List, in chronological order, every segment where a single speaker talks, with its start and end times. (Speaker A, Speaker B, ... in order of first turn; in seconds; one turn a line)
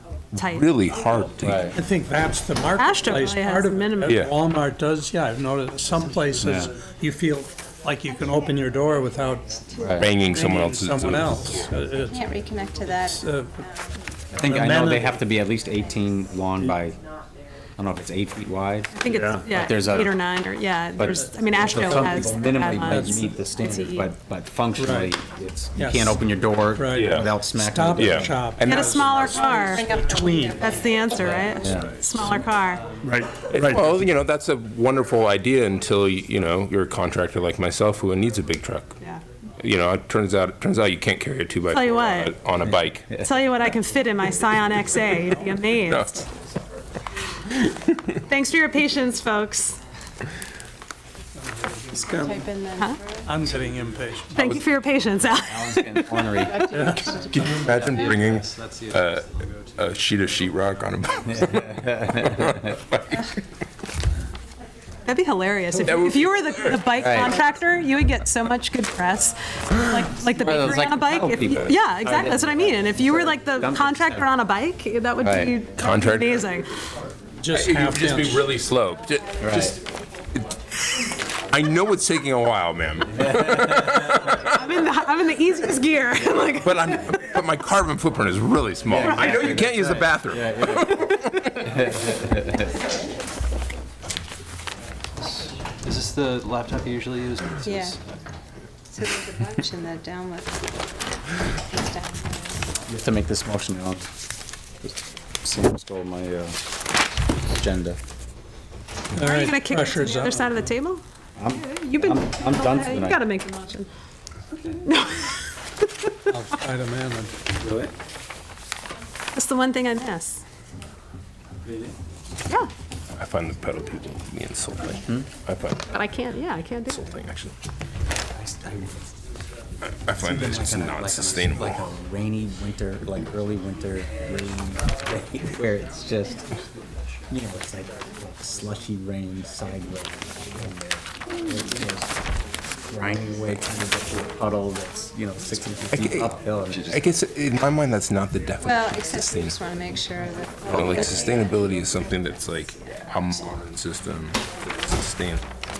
Speaker A: 0.3-1.8
Speaker B: 0.4-0.7
Speaker C: 1.4-1.7
Speaker D: 1.7-9.5
Speaker B: 2.7-4.2
Speaker A: 4.0-4.3
Speaker C: 6.4-6.7
Speaker C: 9.8-10.1
Speaker A: 9.9-11.7
Speaker D: 10.2-13.6
Speaker E: 12.1-13.3
Speaker C: 14.3-17.0
Speaker D: 14.4-15.2
Speaker C: 17.8-20.1
Speaker B: 18.9-24.1
Speaker D: 19.1-19.4
Speaker C: 21.0-28.5
Speaker D: 21.7-22.2
Speaker D: 22.8-23.3
Speaker D: 24.7-25.1
Speaker D: 25.8-26.2
Speaker D: 26.8-30.7
Speaker A: 26.9-27.3
Speaker A: 28.0-29.0
Speaker B: 28.6-30.0
Speaker E: 30.0-30.4
Speaker B: 30.5-32.8
Speaker C: 31.6-31.9
Speaker D: 33.0-33.9
Speaker A: 33.5-38.9
Speaker A: 39.6-43.2
Speaker B: 41.7-42.4
Speaker C: 42.6-43.2
Speaker B: 43.1-46.3
Speaker A: 45.9-46.2
Speaker B: 48.3-49.8
Speaker D: 51.4-52.5
Speaker E: 51.9-53.3
Speaker D: 53.2-54.6
Speaker B: 54.3-56.5
Speaker C: 55.4-56.7
Speaker E: 56.4-57.6
Speaker D: 56.7-57.1
Speaker A: 57.1-63.4
Speaker F: 57.9-59.0
Speaker C: 61.5-62.5
Speaker B: 65.0-76.7
Speaker A: 65.8-66.9
Speaker C: 67.0-67.4
Speaker C: 70.2-74.3
Speaker C: 75.2-75.5
Speaker A: 75.8-76.4
Speaker D: 77.4-78.5
Speaker A: 77.5-79.8
Speaker C: 79.4-79.8
Speaker A: 81.5-84.5
Speaker B: 84.3-87.4
Speaker A: 86.6-91.8
Speaker C: 88.9-91.0
Speaker F: 95.8-97.9
Speaker E: 97.6-98.0
Speaker E: 98.9-100.6
Speaker E: 101.7-102.6
Speaker C: 102.9-104.1
Speaker C: 104.8-106.6
Speaker C: 107.4-108.0
Speaker D: 109.1-110.7
Speaker B: 109.1-113.9
Speaker C: 111.4-113.2
Speaker B: 114.8-115.5
Speaker D: 116.3-117.3
Speaker B: 119.3-120.4
Speaker A: 123.2-126.0
Speaker B: 125.9-127.0
Speaker A: 126.8-127.5
Speaker C: 128.3-129.0
Speaker A: 129.8-131.8
Speaker C: 130.2-136.6
Speaker C: 137.3-142.1
Speaker C: 142.9-147.0
Speaker A: 145.9-149.8
Speaker E: 148.6-151.4
Speaker A: 150.6-155.4